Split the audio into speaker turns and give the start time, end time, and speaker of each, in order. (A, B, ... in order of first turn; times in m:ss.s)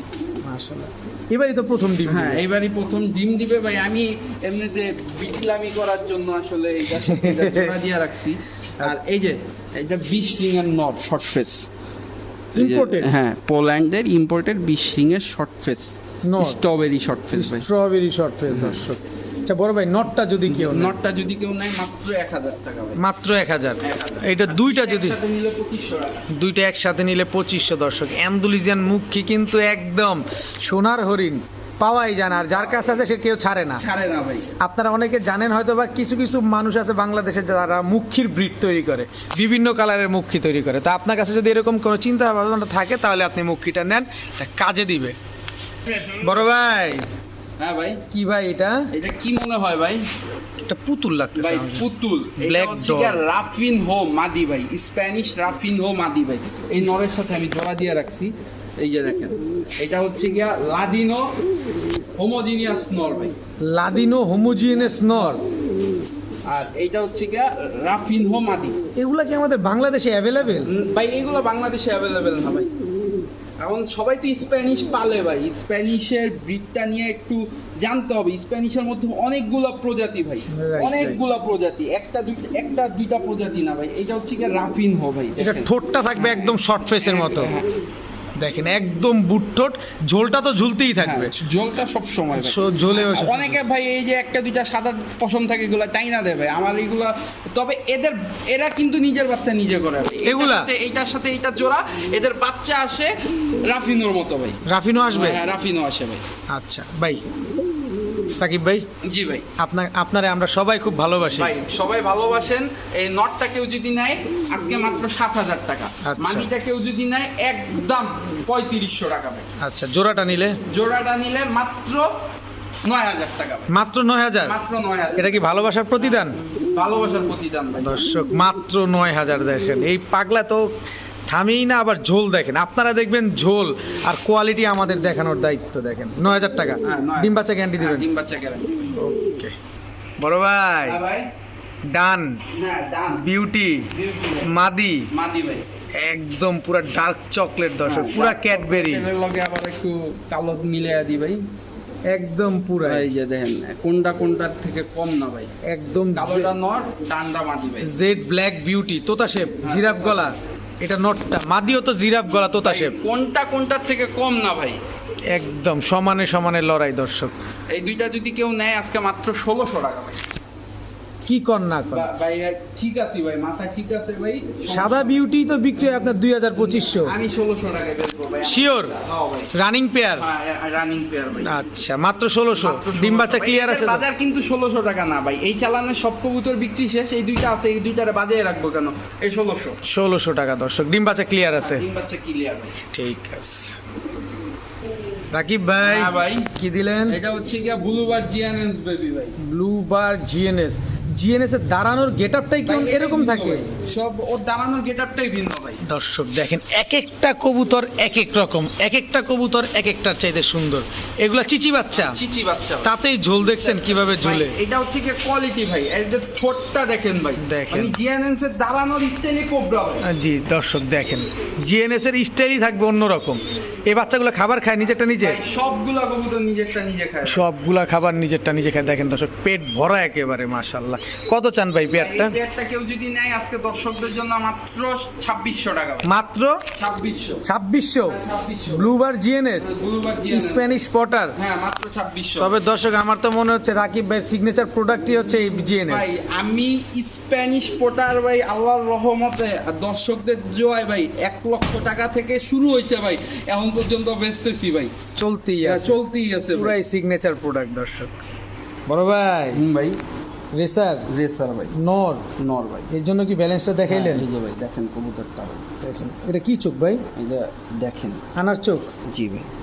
0:00.4-0:02.4 A
0:02.0-0:11.7 B
0:06.9-0:07.7 A
0:12.5-0:17.7 B
0:12.5-0:13.1 A
0:16.2-0:16.6 A
0:17.3-0:20.9 A
0:18.5-0:18.8 B
0:20.5-0:23.0 B
0:23.0-0:25.2 A
0:23.8-0:26.3 B
0:26.3-0:33.8 A
0:33.8-0:34.5 B
0:34.6-0:45.2 A
0:46.0-0:47.0 A
0:47.6-0:48.0 B
0:48.1-0:48.9 A
0:48.9-0:50.1 B
0:50.6-0:53.2 A
0:51.4-1:01.4 B
1:02.2-1:03.4 B
1:03.6-1:05.4 A
1:06.4-1:08.8 B
1:09.0-1:10.7 A
1:10.5-1:12.7 B
1:13.6-1:27.7 B
1:20.5-1:21.3 A
1:25.4-1:27.6 A
1:28.4-1:31.4 A
1:31.0-1:46.2 B
1:32.3-1:33.6 A
1:40.2-1:40.7 A
1:44.6-1:45.4 A
1:46.5-1:47.2 A
1:48.4-1:48.9 A
1:49.0-1:49.5 B
1:49.6-1:51.5 A
1:51.3-1:59.5 B
1:56.0-1:56.5 A
1:59.6-2:00.6 A
2:00.7-2:02.1 B
2:02.8-2:03.7 B
2:03.7-2:04.6 A
2:04.4-2:05.4 B
2:05.2-2:06.3 A
2:06.0-2:08.0 B
2:07.8-2:10.7 A
2:11.3-2:18.0 A
2:16.8-2:18.8 B
2:19.0-2:19.5 A
2:20.2-2:21.0 A
2:20.8-2:21.3 B
2:21.9-2:22.4 A
2:22.5-2:23.2 B
2:23.1-2:23.9 A
2:23.9-2:24.5 B
2:24.4-2:25.1 A
2:25.1-2:25.6 B
2:26.0-2:29.1 A
2:27.8-2:31.4 B
2:32.1-2:33.1 A
2:32.8-2:35.5 B
2:35.6-2:36.5 A
2:36.1-2:38.0 B
2:37.8-2:43.0 A
2:39.6-2:40.3 B
2:42.6-2:44.8 B
2:45.3-2:47.3 A
2:47.7-2:50.2 B
2:51.3-2:52.1 A
2:51.9-2:55.2 B
2:54.7-2:57.1 A
2:56.6-2:59.5 B
2:58.4-2:58.9 A
2:59.5-3:00.2 A
3:00.2-3:01.6 B
3:01.4-3:04.0 A
3:02.5-3:09.8 B
3:09.8-3:11.8 A
3:11.6-3:12.8 B
3:12.9-3:13.8 A
3:15.3-3:17.2 A
3:15.8-3:16.5 B
3:17.1-3:19.4 B
3:19.4-3:23.6 A
3:22.6-3:25.8 B
3:25.8-3:32.2 A
3:31.9-3:32.9 B
3:32.8-3:34.6 A
3:33.6-3:40.1 B
3:37.4-3:37.9 A
3:40.0-3:45.4 A
3:45.1-3:47.4 B
3:47.3-3:52.4 A
3:51.9-3:56.1 B
3:56.0-3:56.6 A
3:56.8-3:57.4 B
3:57.4-3:58.2 A
3:58.0-3:58.9 B
3:58.7-3:59.7 A
3:59.6-4:00.8 B
4:00.3-4:01.4 A
4:01.4-4:02.6 B
4:02.4-4:06.2 A
4:05.9-4:14.9 B
4:15.2-4:16.0 A
4:15.6-4:16.8 B
4:16.5-4:18.2 A
4:18.9-4:19.6 A
4:19.5-4:20.0 B
4:20.6-4:21.1 A
4:21.1-4:21.7 B
4:21.7-4:22.2 A
4:22.4-4:22.9 B
4:22.9-4:24.2 A
4:23.9-4:25.6 B
4:25.8-4:27.0 A
4:27.2-4:28.2 B
4:28.3-4:28.9 A
4:29.0-4:29.5 B